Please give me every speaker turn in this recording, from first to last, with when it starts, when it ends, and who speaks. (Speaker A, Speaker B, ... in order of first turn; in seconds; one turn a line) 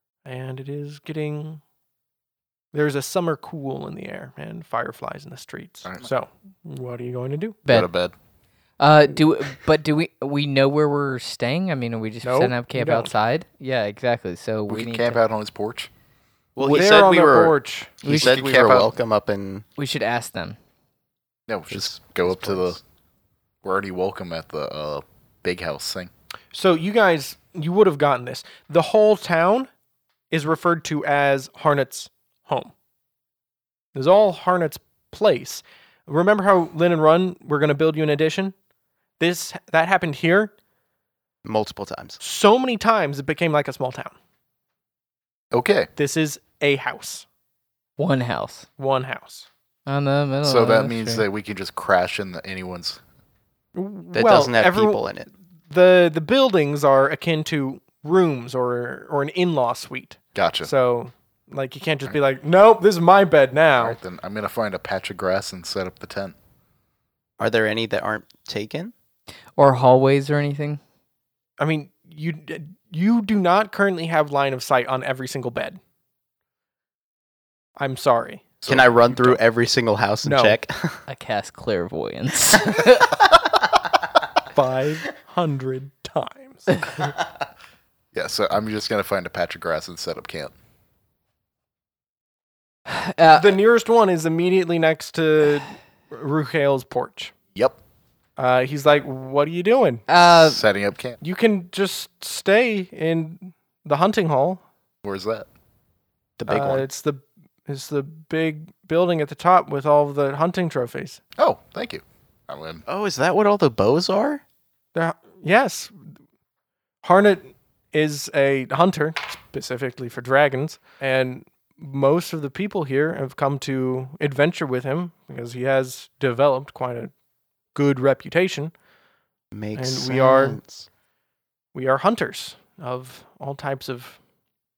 Speaker A: 0.2-1.6
Speaker A: 2.7-7.6
Speaker B: 5.8-6.1
Speaker B: 7.7-8.1
Speaker C: 8.8-15.2
Speaker A: 12.2-13.1
Speaker B: 14.7-15.9
Speaker D: 16.6-19.6
Speaker C: 16.6-16.9
Speaker A: 16.6-18.0
Speaker C: 18.0-18.4
Speaker B: 18.1-19.0
Speaker C: 19.8-20.6
Speaker B: 21.5-22.8
Speaker D: 21.7-22.8
Speaker B: 23.6-26.1
Speaker A: 26.5-29.7
Speaker A: 30.3-32.7
Speaker A: 33.9-38.5
Speaker A: 39.2-40.5
Speaker D: 41.4-42.2
Speaker A: 42.2-44.1
Speaker B: 45.5-45.9
Speaker A: 46.0-47.2
Speaker C: 48.0-48.7
Speaker A: 48.8-49.5
Speaker C: 49.9-51.2
Speaker B: 50.4-53.0
Speaker A: 53.7-55.0
Speaker D: 54.1-55.3
Speaker A: 55.7-64.0
Speaker B: 60.3-60.7
Speaker B: 63.8-66.3
Speaker D: 67.4-68.9
Speaker C: 69.6-70.8
Speaker A: 71.6-75.8
Speaker A: 77.8-78.6
Speaker B: 78.6-79.4
Speaker D: 78.7-81.0
Speaker A: 80.2-80.6
Speaker C: 81.1-83.2
Speaker A: 84.5-86.7
Speaker B: 88.1-90.5
Speaker C: 92.8-93.5
Speaker A: 93.2-97.3
Speaker A: 98.4-100.0
Speaker C: 100.1-100.6
Speaker B: 100.2-101.2
Speaker A: 101.2-104.6
Speaker B: 105.0-105.5
Speaker D: 106.4-106.8
Speaker A: 106.5-111.2
Speaker B: 111.4-112.8
Speaker D: 112.9-114.4
Speaker A: 114.9-116.1
Speaker A: 117.0-127.1
Speaker A: 127.7-128.7
Speaker D: 129.5-130.8
Speaker A: 129.7-130.6
Speaker A: 131.7-134.2